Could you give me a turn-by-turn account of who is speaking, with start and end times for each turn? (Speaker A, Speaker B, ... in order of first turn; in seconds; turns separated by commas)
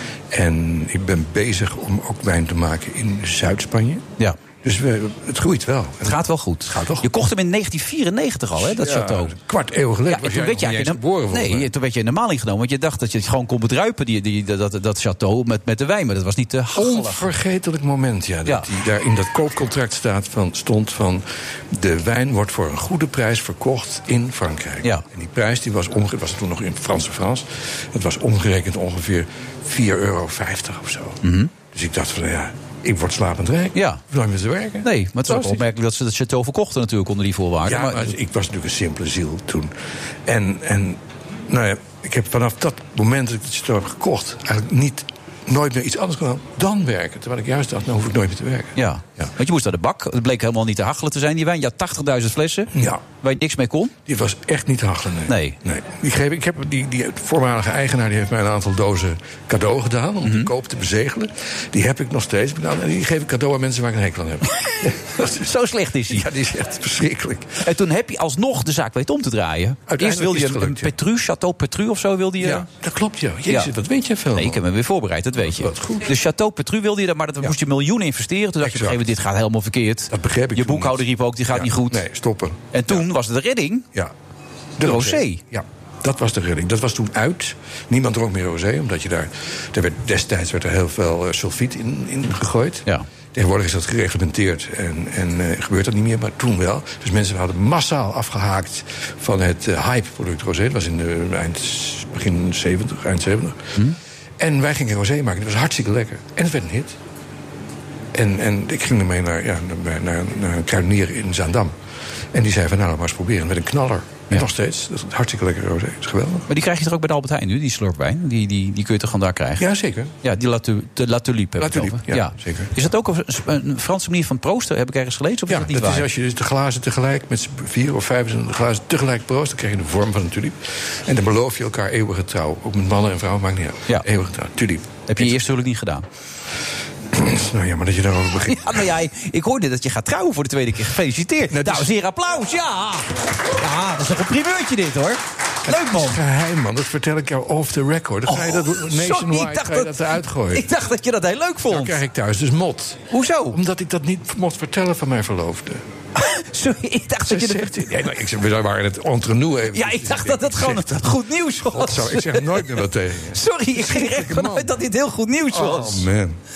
Speaker A: 0.3-4.0, Speaker A: 4.6-7.1, Speaker B: 6.0-9.3, Speaker A: 8.6-11.7, Speaker B: 10.1-17.3, Speaker A: 16.7-35.6, Speaker B: 31.2-31.5, Speaker B: 33.7-34.0, Speaker B: 34.8-38.1, Speaker A: 37.6-39.7, Speaker A: 40.2-49.3, Speaker B: 48.8-53.9, Speaker A: 52.7-53.0, Speaker A: 54.1-65.5, Speaker B: 55.3-55.5, Speaker B: 60.2-60.5, Speaker B: 65.4-66.2, Speaker A: 66.1-67.6, Speaker B: 67.6-72.7, Speaker A: 69.9-70.9, Speaker A: 72.4-74.6, Speaker B: 74.3-82.0, Speaker A: 75.4-76.1, Speaker A: 78.6-79.0, Speaker A: 80.1-83.0, Speaker B: 82.7-83.8, Speaker A: 84.8-103.8, Speaker B: 84.8-85.4, Speaker A: 104.4-107.0, Speaker A: 108.1-111.7, Speaker A: 112.3-116.5, Speaker B: 116.5-119.6, Speaker A: 119.6-120.1, Speaker B: 120.2-126.1, Speaker A: 121.6-122.8, Speaker A: 125.5-135.4, Speaker B: 135.1-136.1, Speaker A: 137.1-138.9, Speaker B: 138.5-146.2, Speaker A: 141.5-141.9, Speaker A: 145.7-150.6, Speaker B: 148.3-152.0, Speaker A: 151.7-155.8, Speaker B: 153.1-153.6, Speaker B: 156.2-157.9, Speaker A: 157.2-164.8, Speaker B: 159.7-162.6, Speaker B: 163.3-166.1, Speaker A: 165.5-166.4